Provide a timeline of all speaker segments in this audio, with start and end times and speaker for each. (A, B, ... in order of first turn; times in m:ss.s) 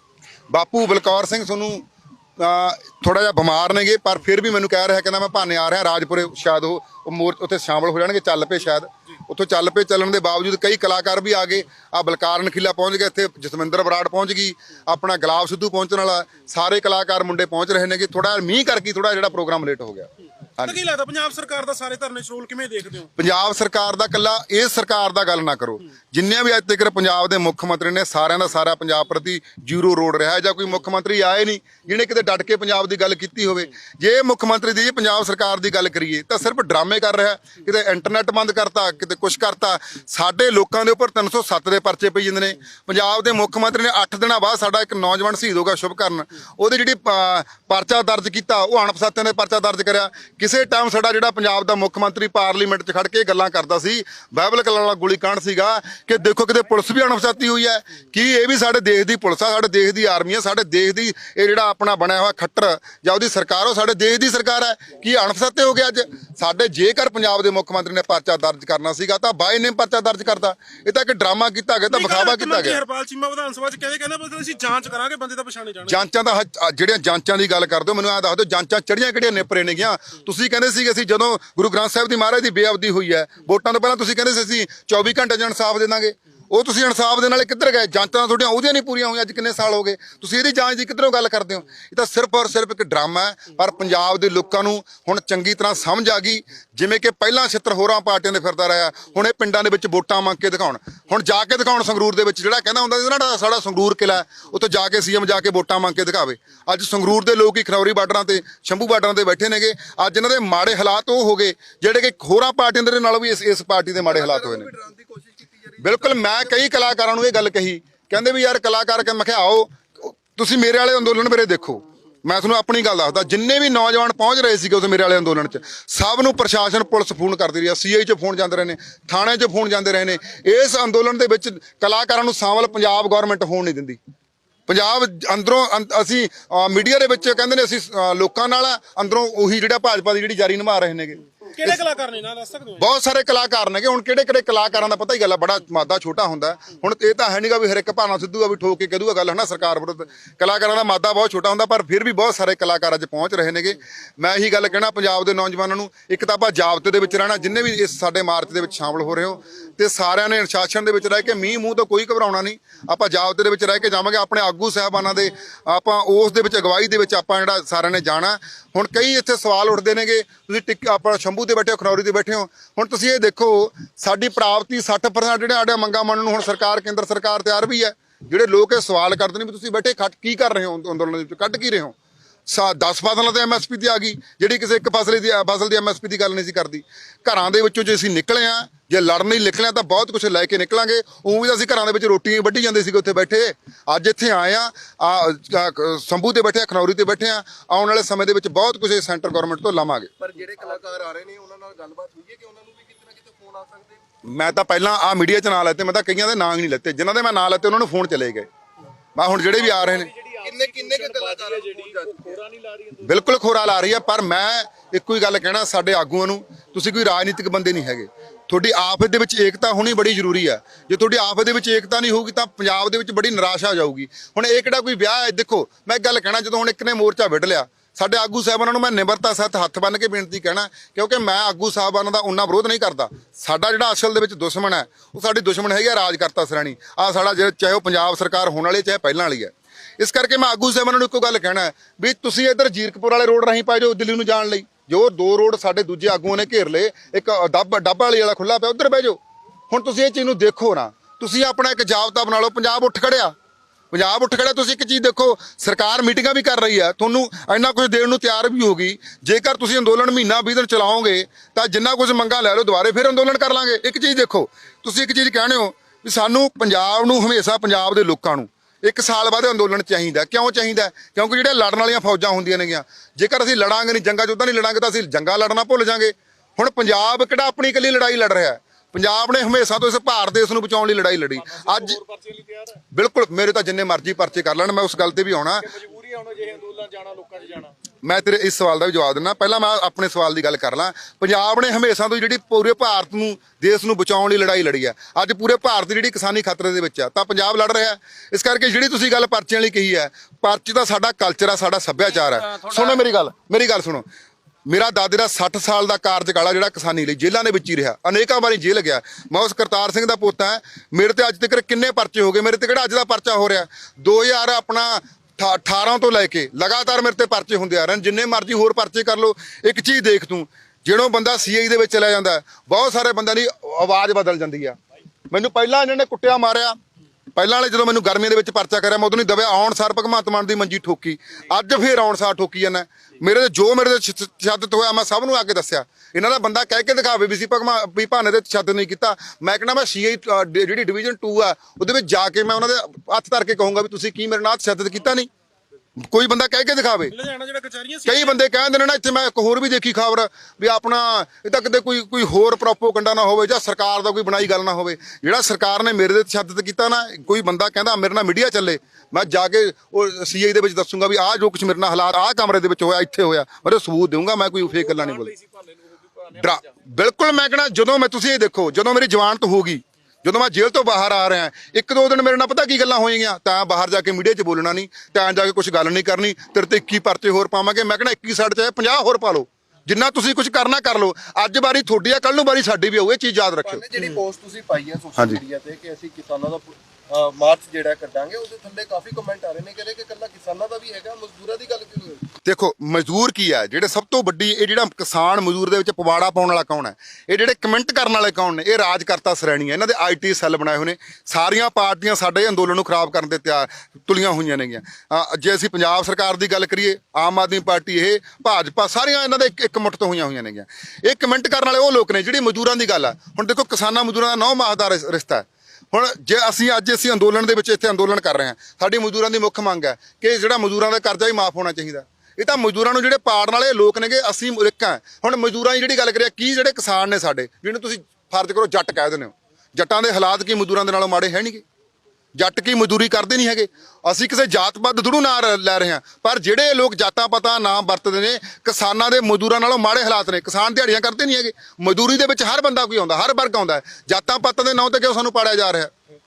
0:00.5-0:01.8 A
0:02.4-0:20.8 A
0:20.6-0:23.1 B
0:23.2-1:12.8 A
1:11.9-1:16.0 B
1:15.9-1:54.7 A
1:54.1-1:56.4 C
1:55.8-2:14.0 A
2:14.7-2:21.8 A
2:21.6-2:22.8 B
2:22.8-3:02.0 A
3:02.5-3:20.1 A
3:20.2-3:24.0 C
3:24.3-3:28.5 A
3:29.2-3:30.1 A
3:29.5-3:33.2 B
3:30.4-3:32.4 C
3:33.0-4:13.3 A
4:13.9-4:42.0 A
4:41.4-4:42.8 B
4:42.9-4:45.7 A
4:45.6-4:47.8 B
4:48.0-5:04.1 A
5:04.7-5:24.8 A
5:25.3-5:26.8 A
5:27.3-5:45.3 A
5:46.0-5:47.2 A
5:47.1-5:48.4 B
5:48.0-6:05.4 A
6:05.0-6:06.3 B
6:06.3-6:24.1 A
6:23.6-6:32.3 C
6:32.4-7:11.6 A
7:12.4-7:25.9 A